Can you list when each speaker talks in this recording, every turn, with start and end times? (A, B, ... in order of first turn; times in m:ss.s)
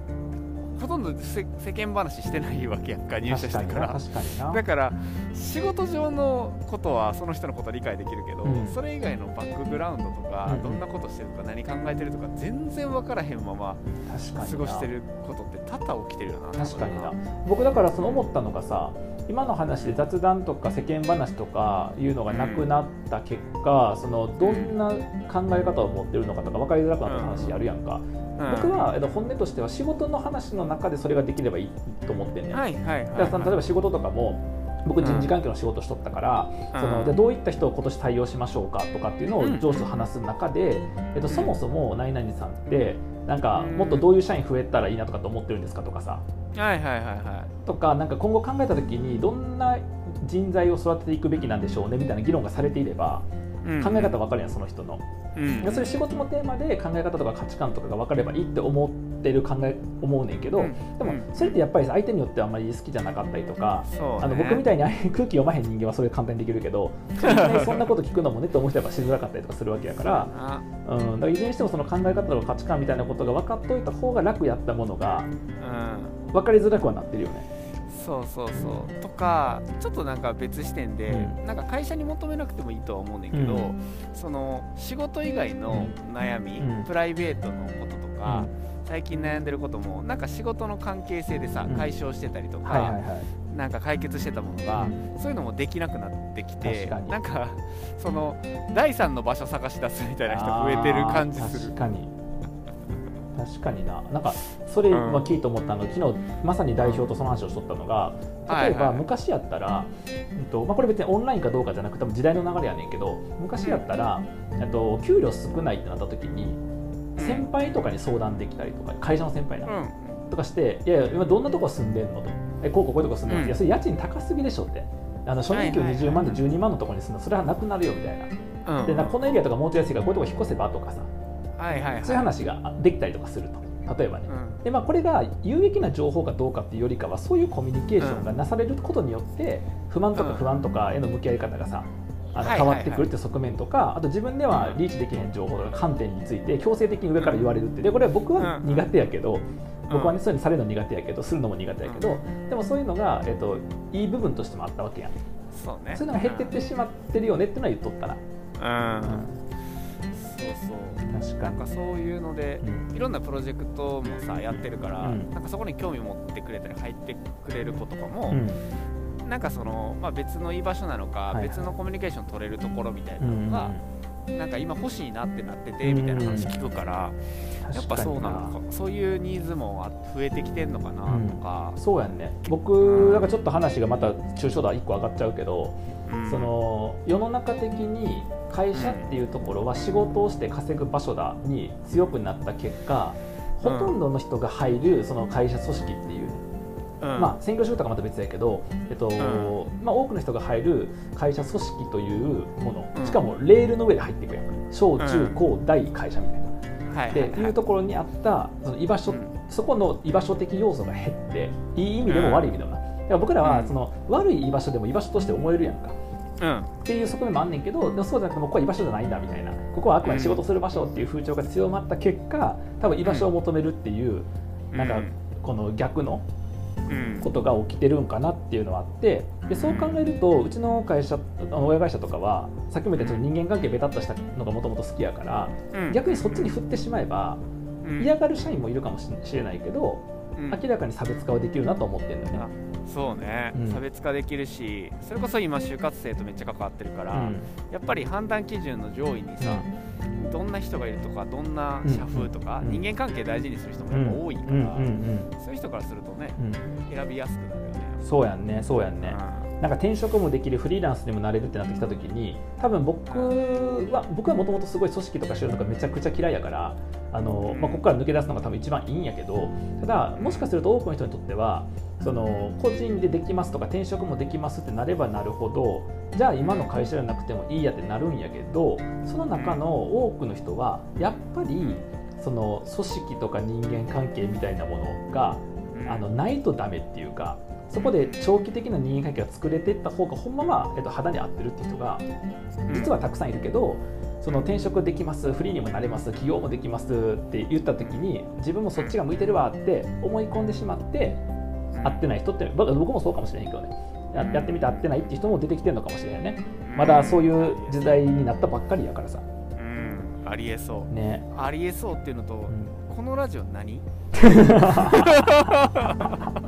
0:00.7-0:13.8 A
0:03.2-0:04.6 B
0:08.4-0:08.8 B
0:10.4-0:10.8 B
0:14.1-0:14.9 B
0:14.3-0:17.1 A
0:16.5-0:46.2 B
0:18.0-0:18.2 A
0:19.8-0:20.0 A
0:22.3-0:22.7 A
0:24.4-0:24.7 A
0:27.0-0:27.6 A
0:28.4-0:28.9 A
0:32.5-0:33.6 A
0:35.0-0:35.3 A
0:36.7-0:37.1 A
0:39.4-0:39.9 A
0:41.3-0:41.5 A
0:43.5-0:44.1 A
0:46.5-0:47.5 A
0:47.6-0:53.2 B
0:53.6-0:54.1 A
0:53.8-0:55.0 B
0:55.4-0:55.9 A
0:55.6-1:10.3 B
1:00.6-1:01.6 A
1:03.9-1:04.6 A
1:07.2-1:07.9 A
1:10.0-1:10.6 A
1:10.8-1:15.3 B
1:15.6-1:16.2 A
1:16.3-1:17.5 B
1:17.9-1:41.8 A
1:18.5-1:18.9 B
1:21.1-1:21.4 B
1:23.3-1:23.7 B
1:25.7-1:25.9 B
1:26.6-1:26.9 B
1:28.2-1:28.5 B
1:32.6-1:33.3 B
1:34.7-1:35.0 B
1:36.6-1:37.2 B
1:40.2-1:42.1 B
1:43.3-1:56.6 B
1:44.9-1:45.3 A
1:46.8-1:47.1 A
1:48.5-1:49.0 A
1:53.6-1:53.9 A
1:57.2-1:57.5 A
1:57.2-1:59.7 B
1:59.6-2:00.2 A
2:00.3-2:08.3 B
2:03.3-2:03.6 A
2:05.5-2:06.4 A
2:08.6-2:09.2 A
2:08.8-2:11.1 B
2:11.6-2:12.3 A
2:11.9-2:35.1 B
2:14.3-2:14.6 A
2:18.0-2:18.3 A
2:20.1-2:20.4 A
2:22.4-2:23.1 A
2:24.5-2:24.8 A
2:27.2-2:27.5 A
2:28.4-2:28.9 A
2:29.9-2:30.2 A
2:35.5-2:36.5 A
2:35.9-2:38.2 B
2:38.6-2:39.2 A
2:39.0-2:39.4 B
2:40.1-2:48.4 A
2:41.1-2:41.6 B
2:42.6-2:42.9 B
2:44.5-2:45.3 B
2:48.3-2:48.6 B
2:49.2-2:53.7 A
2:51.3-2:51.7 B
2:53.2-2:53.8 B
2:54.3-2:57.2 A
2:55.8-2:56.5 B
2:57.6-2:58.6 B
2:57.7-3:01.8 A
3:01.0-3:16.4 B
3:02.8-3:03.3 A
3:06.1-3:06.5 A
3:08.7-3:09.1 A
3:13.6-3:14.0 A
3:17.0-3:17.3 A
3:17.2-3:26.5 B
3:19.2-3:19.5 A
3:22.9-3:23.2 A
3:25.0-3:25.4 A
3:26.9-3:27.6 A
3:27.1-3:36.0 B
3:29.1-3:29.3 A
3:32.1-3:32.5 A
3:33.4-3:33.8 A
3:36.4-3:36.7 A
3:36.8-3:46.2 B
3:40.0-3:40.4 A
3:43.0-3:43.3 A
3:44.7-3:45.1 A
3:46.9-3:47.2 A
3:47.2-3:57.4 B
3:49.5-3:49.9 A
3:53.0-3:53.3 A
3:55.7-3:56.5 A
3:57.8-3:58.1 A
3:58.0-4:02.5 B
4:00.4-4:00.6 A
4:02.3-4:09.6 A
4:03.5-4:03.8 B
4:07.1-4:07.5 B
4:09.4-4:09.7 B
4:10.2-4:18.0 A
4:11.8-4:12.8 B
4:13.9-4:15.3 B
4:16.4-4:16.6 B
4:18.0-4:52.0 B
4:19.0-4:19.5 A
4:23.0-4:23.4 A
4:27.5-4:27.8 A
4:30.2-4:30.5 A
4:36.4-4:36.7 A
4:39.3-4:39.6 A
4:45.7-4:46.1 A
4:47.7-4:48.2 A
4:52.7-4:52.9 A
4:52.7-5:01.2 B
5:01.7-5:02.0 A
5:01.8-5:09.2 B
5:04.2-5:04.8 A
5:06.6-5:07.8 A
5:09.6-5:13.8 A
5:10.9-5:11.3 B
5:12.5-5:12.7 B
5:14.2-5:15.2 B
5:14.5-5:16.2 A